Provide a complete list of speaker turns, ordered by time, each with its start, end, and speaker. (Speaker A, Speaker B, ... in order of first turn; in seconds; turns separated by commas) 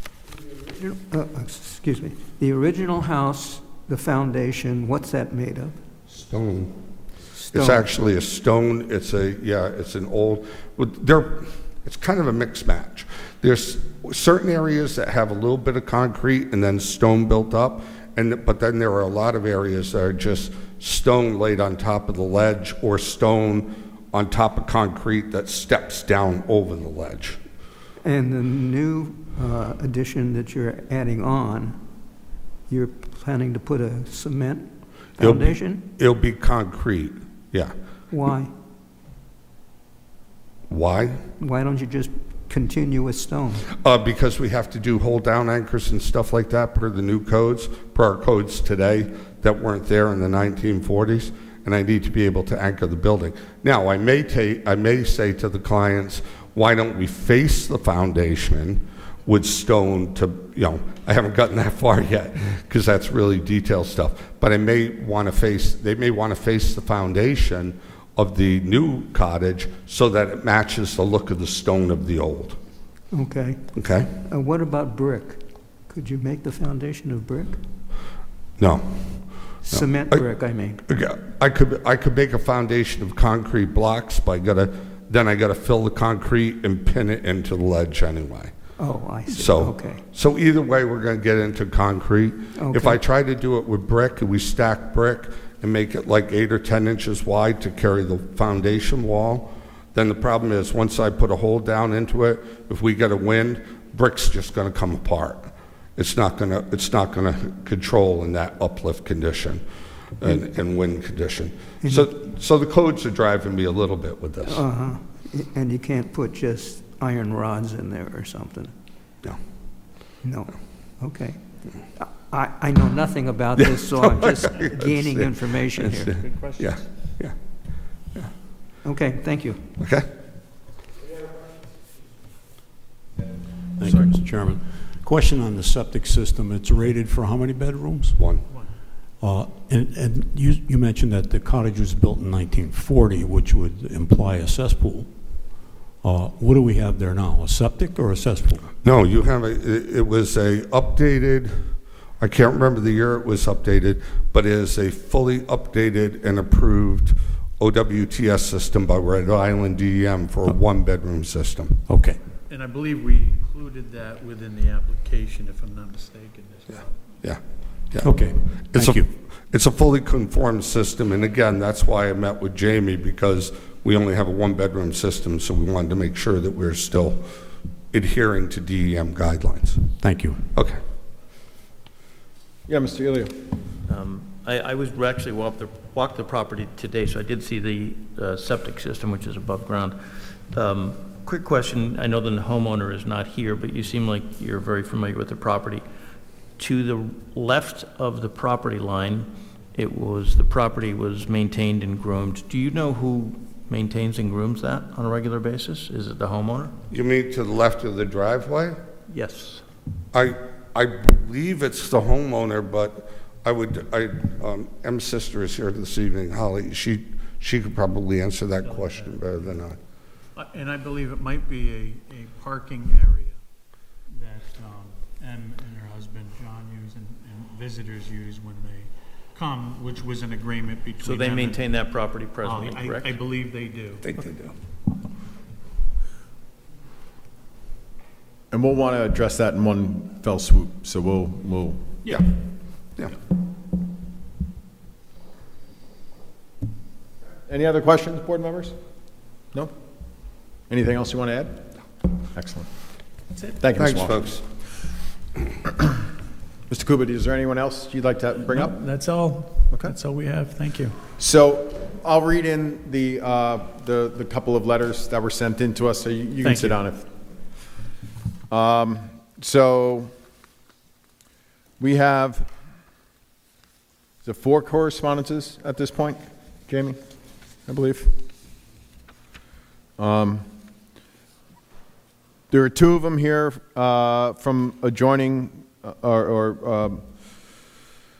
Speaker A: 0.7-5.8, Speaker B: 6.1-6.7, Speaker A: 7.3-7.8, Speaker B: 7.5-27.4, Speaker A: 28.0-31.8, Speaker A: 32.7-35.8, Speaker B: 35.2-37.7, Speaker A: 38.1-38.5, Speaker B: 40.7-41.2, Speaker A: 41.4-43.7, Speaker B: 43.8-72.6, Speaker A: 73.1-77.6, Speaker B: 73.8-74.1, Speaker B: 78.6-79.2, Speaker A: 79.6-80.8, Speaker B: 79.7-80.2, Speaker B: 80.9-88.5, Speaker A: 88.8-90.0, Speaker B: 89.3-109.6, Speaker A: 92.5-93.0, Speaker B: 110.2-114.6, Speaker A: 111.8-112.1, Speaker A: 114.5-118.7, Speaker A: 120.2-121.4, Speaker A: 122.0-126.2, Speaker B: 123.6-127.3, Speaker C: 126.2-126.8, Speaker A: 128.8-129.7, Speaker B: 129.8-130.1, Speaker D: 133.8-138.4, Speaker C: 133.8-134.1, Speaker B: 138.2-138.4, Speaker D: 139.2-145.1, Speaker D: 146.0-148.7, Speaker B: 148.8-151.7, Speaker B: 152.2-161.8, Speaker D: 161.9-162.2, Speaker E: 162.5-167.0, Speaker B: 167.2-168.1, Speaker D: 168.0-169.1, Speaker B: 168.7-177.2, Speaker B: 177.9-179.8, Speaker D: 180.0-180.4, Speaker B: 180.5-180.8, Speaker F: 182.7-183.3, Speaker C: 183.9-190.0, Speaker C: 190.5-195.8, Speaker C: 196.6-206.7, Speaker B: 206.9-208.8, Speaker C: 209.1-209.6, Speaker B: 210.1-219.8, Speaker E: 218.6-219.5, Speaker E: 220.3-223.4, Speaker E: 224.1-231.7, Speaker C: 231.0-233.2, Speaker E: 232.4-234.1, Speaker B: 234.0-234.5, Speaker F: 238.5-242.0, Speaker F: 247.5-248.7, Speaker F: 250.7-251.8, Speaker F: 252.3-252.7, Speaker F: 253.6-254.2, Speaker B: 253.8-254.4, Speaker F: 256.7-258.8, Speaker E: 258.5-261.0, Speaker F: 261.1-267.0, Speaker E: 266.4-266.8, Speaker F: 268.5-270.1, Speaker F: 271.8-272.5, Speaker F: 274.2-277.0, Speaker F: 277.7-278.1, Speaker F: 280.0-280.4, Speaker F: 282.5-287.0